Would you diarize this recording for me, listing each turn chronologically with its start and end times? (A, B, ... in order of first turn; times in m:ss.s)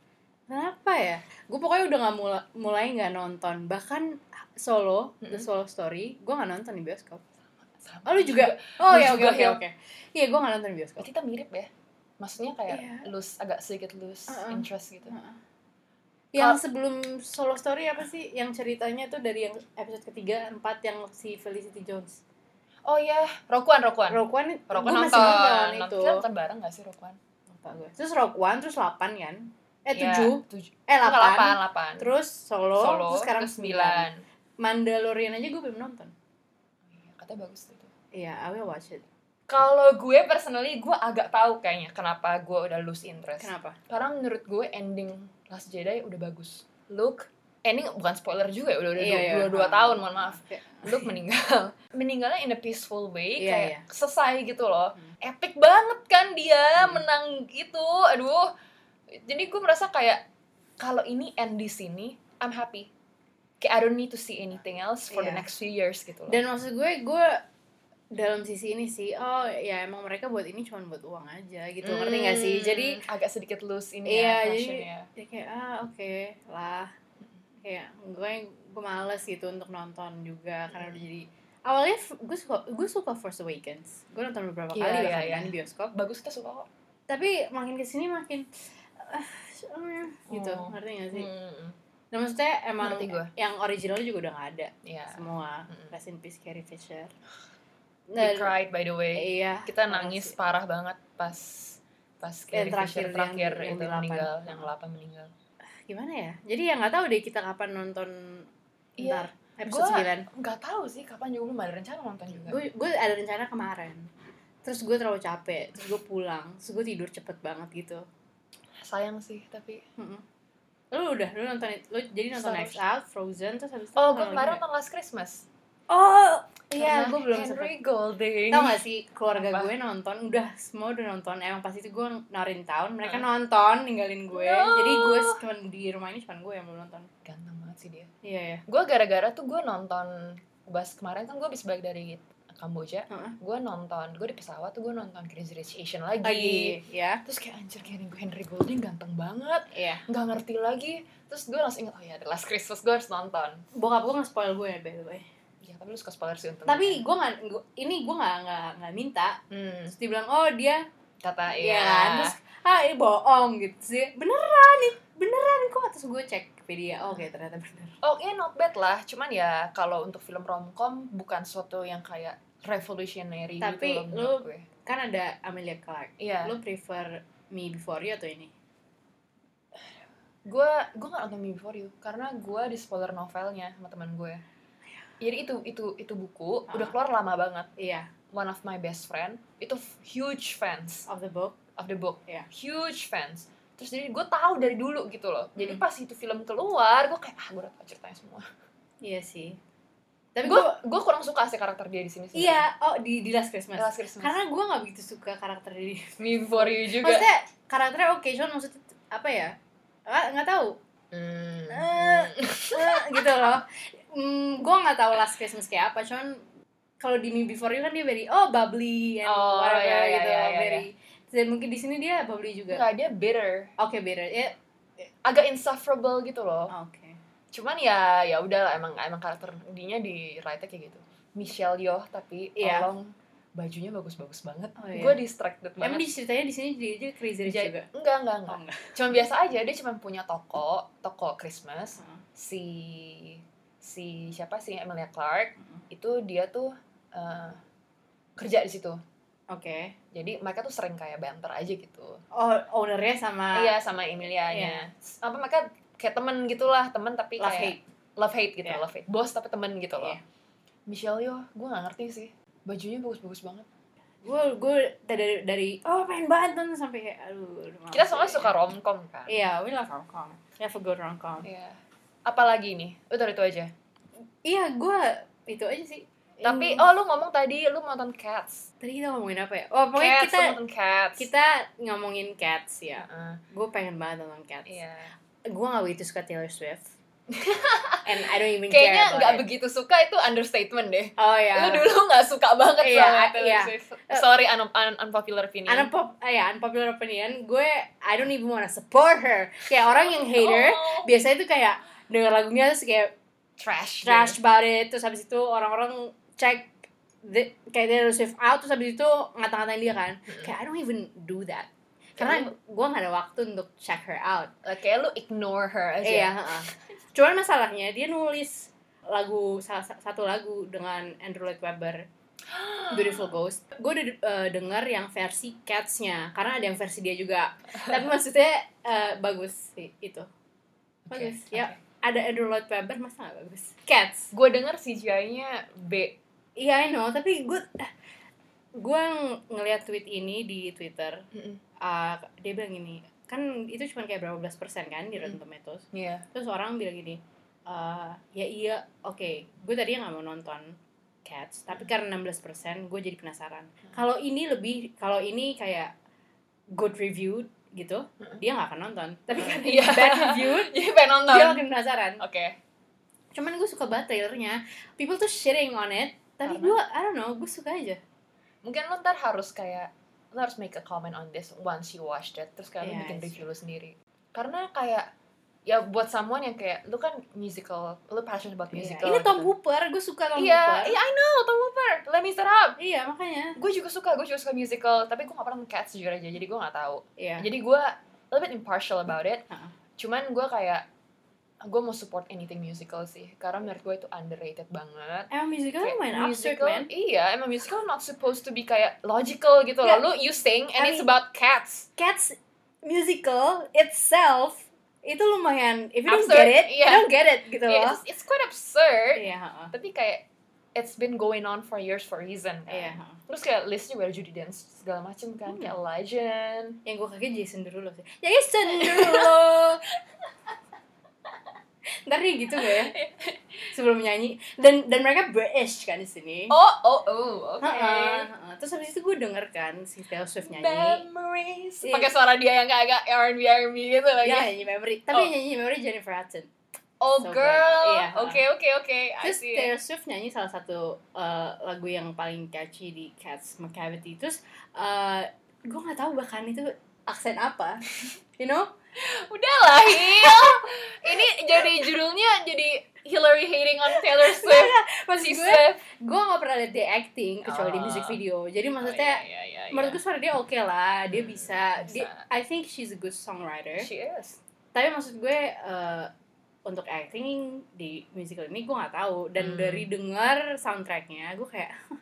0:00.5-0:07.2 A
0:05.2-0:05.5 B
0:07.8-0:09.6 B
0:08.0-0:11.1 A
0:11.0-0:11.7 B
0:12.2-0:15.1 B
0:12.7-0:13.0 A
0:14.3-0:15.4 A
0:16.3-0:22.2 A
0:22.8-0:27.2 B
0:24.1-0:26.2 A
0:27.5-0:34.1 A
0:29.9-0:32.1 B
0:32.8-0:34.2 B
0:34.6-0:36.1 A
0:36.9-0:37.9 B
0:38.1-0:39.0 A
0:39.5-0:58.5 B
0:43.4-0:43.8 A
0:49.0-0:51.1 A
0:53.4-0:53.8 A
0:59.2-1:00.2 B
1:00.8-1:02.9 B
1:03.6-1:06.4 B
1:05.1-1:05.4 A
1:06.3-1:07.4 A
1:08.1-1:13.0 A
1:11.8-1:15.1 B
1:14.0-1:16.9 A
1:17.6-1:25.9 A
1:24.7-1:26.7 B
1:27.1-1:28.5 A
1:29.0-1:31.3 A
1:30.3-1:31.8 B
1:32.1-1:37.1 A
1:32.8-1:33.3 B
1:34.8-1:35.9 B
1:38.1-1:38.5 A
1:38.2-1:45.3 B
1:39.1-1:40.3 A
1:42.5-1:44.6 A
1:45.9-1:48.5 A
1:49.0-1:52.6 B
1:49.0-1:50.3 A
1:52.3-1:54.1 A
1:54.6-1:58.0 A
1:58.8-1:59.8 B
2:00.0-2:00.2 A
2:00.9-2:04.6 A
2:02.3-2:02.8 B
2:04.0-2:05.4 B
2:05.9-2:07.7 A
2:06.8-2:08.8 B
2:08.5-2:17.1 A
2:09.3-2:09.7 B
2:14.3-2:15.4 B
2:17.2-2:18.1 B
2:18.2-2:18.6 A
2:18.7-2:33.6 B
2:23.1-2:23.4 A
2:26.2-2:27.2 A
2:29.7-2:30.0 A
2:33.7-2:35.2 A
2:35.6-2:37.0 B
2:36.6-2:40.8 A
2:39.5-2:39.9 B
2:41.2-2:42.4 B
2:41.5-2:48.0 A
2:48.0-2:54.6 B
2:53.6-2:58.5 A
2:56.2-2:56.5 B
3:00.4-3:04.4 B
3:05.2-3:07.7 B
3:06.7-3:06.9 A
3:07.8-3:08.1 A
3:08.3-3:11.0 B
3:11.1-3:11.6 A
3:11.8-3:18.4 B
3:19.0-3:19.6 A
3:20.3-3:20.8 A
3:20.4-3:22.6 B
3:22.3-3:29.5 A
3:23.8-3:24.4 B
3:26.2-3:27.3 B
3:30.1-3:30.8 A
3:31.1-3:33.5 B
3:31.7-3:36.4 A
3:37.0-3:42.8 A
3:39.2-3:40.8 B
3:42.7-3:43.7 B
3:43.8-3:44.5 A
3:45.2-3:46.7 B
3:46.7-3:47.2 A
3:47.5-3:56.1 B
3:52.6-3:52.9 A
3:54.8-3:55.2 A
3:55.8-3:57.9 A
3:57.4-4:07.6 B
3:58.5-3:59.0 A
4:08.4-4:09.0 B
4:09.5-4:09.9 A
4:10.1-4:12.2 B
4:12.3-4:13.7 A
4:13.5-4:20.2 B
4:14.5-4:14.8 A
4:17.4-4:17.8 A
4:20.9-4:23.6 B
4:24.2-4:28.5 A
4:27.9-4:29.4 B
4:29.3-4:31.5 A
4:31.4-4:33.7 B
4:34.4-4:36.8 A
4:36.4-4:38.7 B
4:38.8-4:40.6 A
4:39.9-4:41.3 B
4:41.2-4:44.8 A
4:43.0-4:43.4 B
4:44.7-4:45.1 B
4:45.5-4:46.9 A
4:47.3-4:55.9 B
4:48.0-4:49.4 A
4:51.2-4:51.9 A
4:52.8-4:54.2 A
4:55.7-5:03.1 A
4:59.9-5:01.1 B
5:03.6-5:04.4 B
5:04.0-5:14.5 A
5:12.2-5:12.5 B
5:14.6-5:16.5 B
5:16.0-5:22.0 A
5:22.5-5:23.3 B
5:22.9-5:30.3 A
5:31.1-5:31.8 B
5:31.1-5:34.3 A
5:34.3-5:36.2 B
5:36.6-5:37.9 A
5:38.8-5:41.2 A
5:41.3-5:41.6 B
5:41.8-5:55.9 A
5:45.9-5:46.2 B
5:56.7-6:00.7 A
5:59.4-6:01.6 B
6:01.3-6:02.2 A
6:02.2-6:02.6 B
6:03.3-6:08.0 A
6:06.4-6:06.8 B
6:08.6-6:15.1 B
6:12.8-6:13.4 A
6:15.6-6:19.5 B
6:18.7-6:21.0 A
6:20.4-6:22.8 B
6:22.8-6:23.6 A
6:23.6-6:29.4 B
6:27.2-6:27.5 A
6:30.0-6:30.8 B
6:31.6-6:41.9 B
6:35.3-6:36.9 A
6:40.8-6:41.1 A
6:42.0-6:48.0 A
6:46.1-6:47.1 B
6:47.6-6:56.8 B
6:49.1-6:49.7 A
6:52.7-6:53.2 A
6:55.5-6:55.7 A
6:56.8-6:59.9 A
6:58.7-6:59.4 B
7:02.0-7:02.9 A
7:02.6-7:03.4 B
7:03.7-7:06.6 A
7:06.5-7:08.3 B
7:07.6-7:11.0 A
7:10.4-7:14.5 B
7:11.8-7:12.1 A
7:14.2-7:16.5 A
7:17.0-7:19.7 B
7:17.2-7:18.4 A
7:19.2-7:27.8 A
7:28.4-7:28.7 A
7:29.0-7:35.8 B
7:34.0-7:43.9 A
7:37.4-7:38.2 B
7:38.8-7:40.0 B
7:41.1-7:42.2 B
7:43.8-7:44.4 B
7:44.7-7:46.1 A
7:46.6-7:51.8 A
7:49.4-7:49.9 B